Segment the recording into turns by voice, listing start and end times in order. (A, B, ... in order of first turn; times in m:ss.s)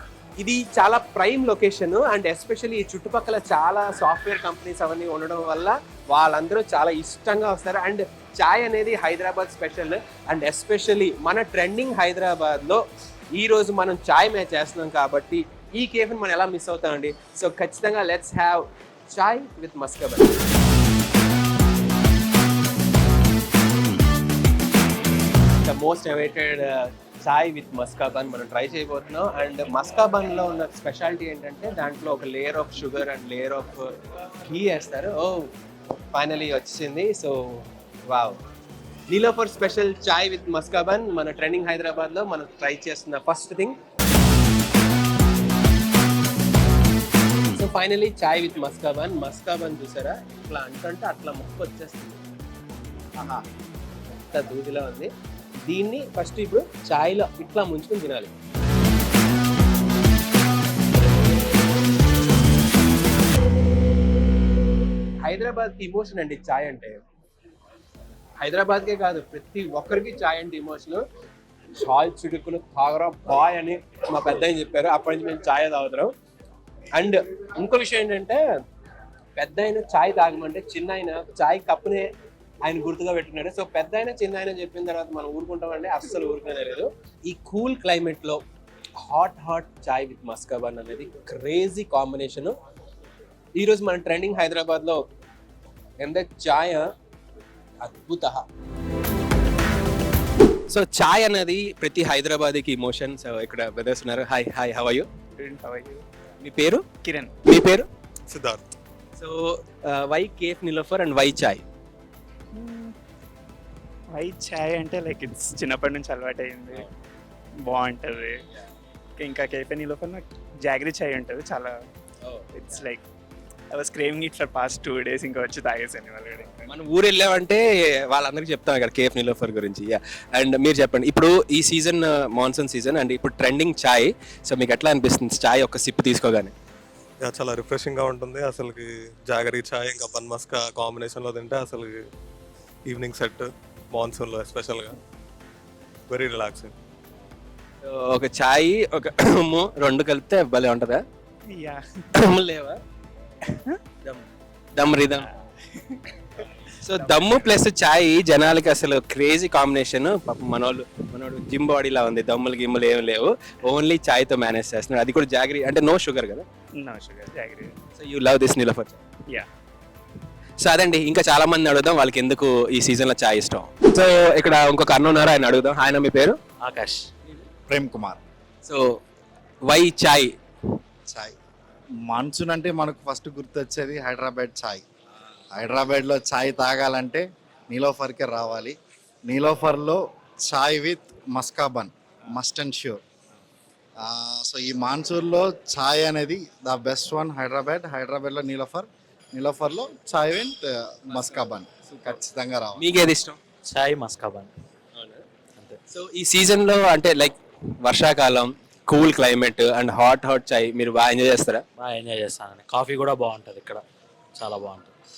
0:00.4-0:20.4 A
0:25.6-0:35.5 A
0:36.1-0:38.4 A
0:39.1-0:43.8 A
0:47.5-0:52.2 A
0:54.3-0:55.1 A
0:55.7-0:58.3 A
1:05.2-1:07.0 A
1:08.4-1:11.0 A
1:11.7-1:16.1 A
1:16.9-1:18.4 A
1:19.4-1:22.1 A
1:22.6-1:28.4 A
1:29.0-1:32.5 A
1:33.6-1:35.0 A
1:36.0-1:36.9 A
1:37.8-1:38.4 A
1:40.7-1:45.1 A
1:45.4-1:46.0 B
1:46.4-1:46.9 A
1:47.0-1:47.3 B
1:47.4-1:47.9 A
1:48.3-1:48.6 C
1:49.2-1:51.6 A
1:52.5-1:52.9 B
1:54.1-1:56.9 B
1:57.6-1:58.4 B
1:59.2-2:01.8 B
2:02.2-2:02.8 A
2:02.5-2:03.0 B
2:03.7-2:06.7 B
2:06.7-2:16.5 A
2:17.2-2:22.1 C
2:22.8-2:25.0 C
2:26.1-2:26.7 C
2:27.8-2:31.0 A
2:31.5-2:31.8 B
2:32.2-2:32.8 A
2:33.5-2:33.8 B
2:34.0-2:35.3 A
2:36.8-2:46.4 A
2:37.0-2:37.4 B
2:46.8-2:47.7 B
2:47.9-2:49.0 A
2:50.6-2:56.4 A
2:56.6-2:57.1 D
2:57.7-2:58.2 E
2:59.7-3:00.3 A
3:02.1-3:04.8 E
3:05.6-3:08.7 E
3:09.3-3:13.0 E
3:14.0-3:22.9 E
3:21.1-3:22.2 A
3:22.8-3:23.4 A
3:23.6-3:24.5 D
3:24.9-3:25.2 A
3:25.9-3:31.6 A
3:31.8-3:33.8 D
3:34.3-3:34.9 D